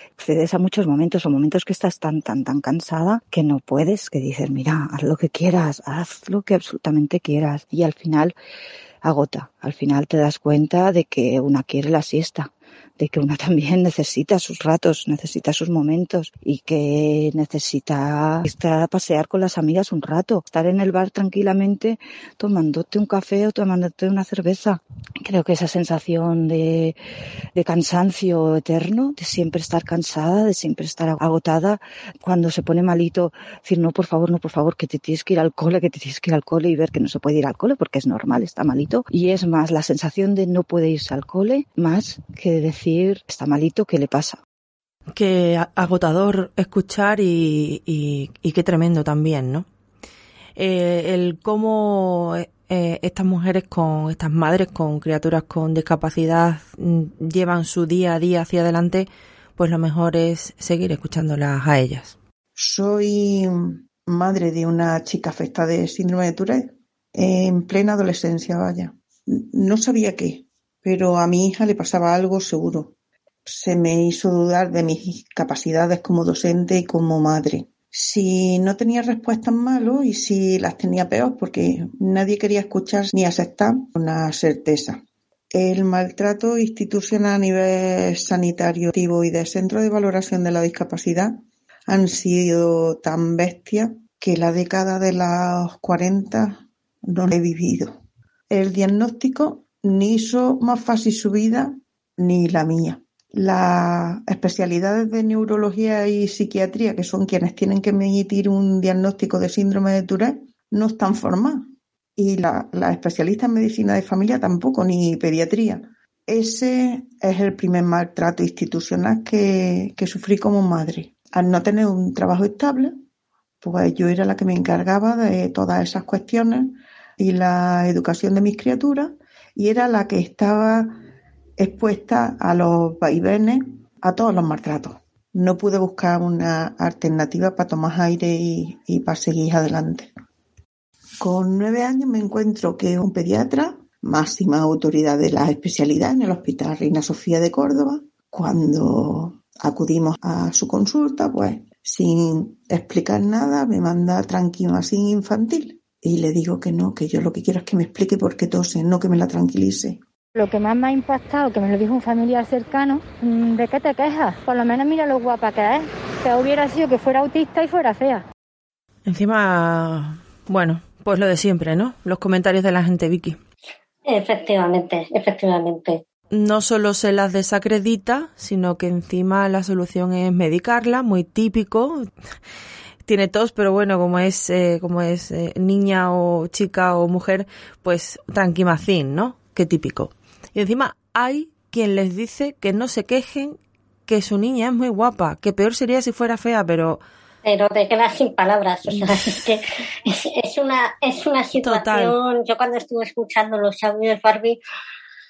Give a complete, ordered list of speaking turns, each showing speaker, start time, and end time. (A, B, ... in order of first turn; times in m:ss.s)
0:00.2-0:08.3 A
0:09.0-0:27.0 A
0:27.6-0:44.4 A
0:45.2-0:49.7 B
0:50.6-1:02.2 B
1:02.6-1:12.9 C
1:13.5-1:25.0 C
1:25.5-1:31.4 C
1:31.9-1:37.9 C
1:38.5-2:02.9 C
2:03.6-2:11.0 C
2:11.6-2:20.1 C
2:21.2-2:40.0 C
2:40.4-2:48.2 D
2:49.1-2:53.4 B
2:54.1-2:56.0 E
2:56.3-3:02.1 B
3:03.1-3:17.0 B
3:17.4-3:24.6 E
3:18.9-3:19.4 B
3:21.6-3:22.1 B